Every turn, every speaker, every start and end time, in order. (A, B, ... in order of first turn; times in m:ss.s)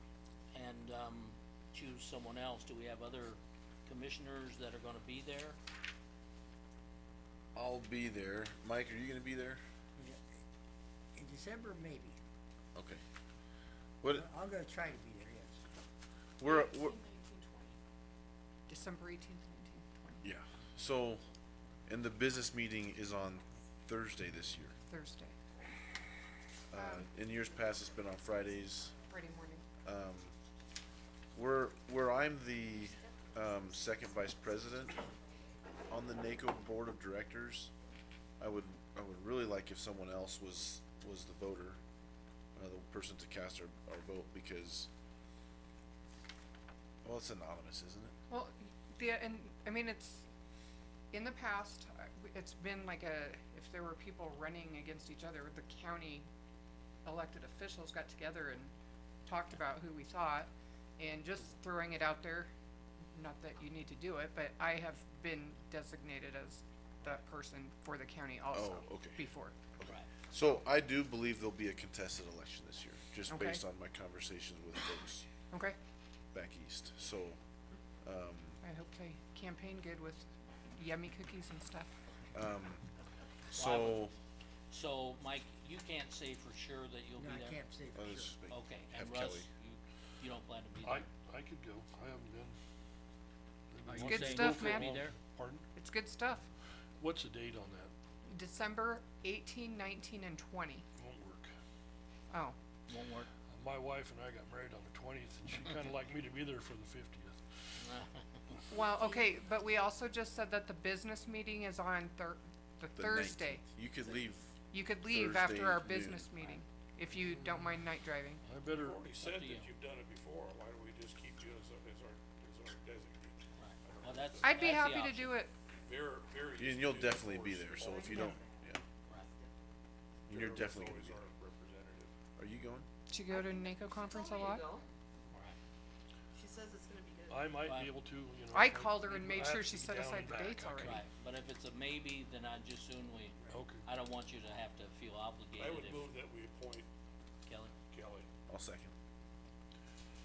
0:00.5-0:05.6 A
0:07.5-0:09.6 B
0:10.0-0:10.2 C
0:11.1-0:12.2 C
0:12.7-0:13.0 B
0:14.1-0:15.6 C
0:16.4-0:17.0 B
0:16.5-0:17.7 D
0:18.7-0:20.2 D
0:20.2-0:21.2 B
0:21.8-0:24.8 B
0:24.9-0:25.4 D
0:26.7-0:28.9 B
0:26.7-0:27.1 D
0:29.1-0:29.6 D
0:29.8-0:30.4 B
0:31.3-0:35.0 B
0:35.9-0:37.7 B
0:38.4-0:41.8 B
0:42.6-0:44.9 B
0:47.0-0:48.1 B
0:48.3-0:50.3 D
0:51.1-0:56.3 D
0:57.0-0:58.7 D
0:59.2-1:02.5 D
1:03.1-1:09.5 D
1:08.5-1:15.3 B
1:13.3-1:13.6 D
1:15.5-1:15.8 D
1:16.3-1:17.4 B
1:18.0-1:18.6 B
1:18.6-1:21.9 D
1:22.3-1:22.8 B
1:23.5-1:24.0 A
1:23.5-1:24.1 B
1:24.7-1:27.6 A
1:27.1-1:28.3 C
1:27.9-1:29.5 B
1:28.5-1:31.1 A
1:30.8-1:32.6 E
1:33.7-1:35.6 E
1:33.8-1:35.1 A
1:34.0-1:35.0 D
1:35.7-1:36.5 D
1:37.0-1:37.9 E
1:38.2-1:40.8 D
1:41.0-1:41.5 E
1:42.3-1:42.6 D
1:42.9-1:43.3 A
1:43.5-1:47.8 E
1:47.8-1:48.6 A
1:48.7-1:53.6 D
1:53.0-1:56.3 B
1:54.7-1:58.4 D
1:58.4-1:59.0 E
1:58.6-2:04.6 F
1:59.2-1:59.7 A
2:03.5-2:05.4 A
2:04.4-2:05.5 D
2:05.8-2:08.8 F
2:06.6-2:08.8 B
2:08.1-2:08.4 D
2:10.3-2:12.2 F
2:10.3-2:11.2 B
2:12.3-2:12.9 B
2:13.1-2:14.7 D
2:13.3-2:14.8 G
2:16.3-2:17.5 G
2:17.3-2:21.0 E
2:17.6-2:17.9 A
2:18.5-2:21.0 D
2:20.8-2:26.1 A
2:23.5-2:23.8 E
2:25.6-2:26.9 F
2:27.4-2:27.7 A
2:27.9-2:28.3 F
2:28.5-2:28.9 B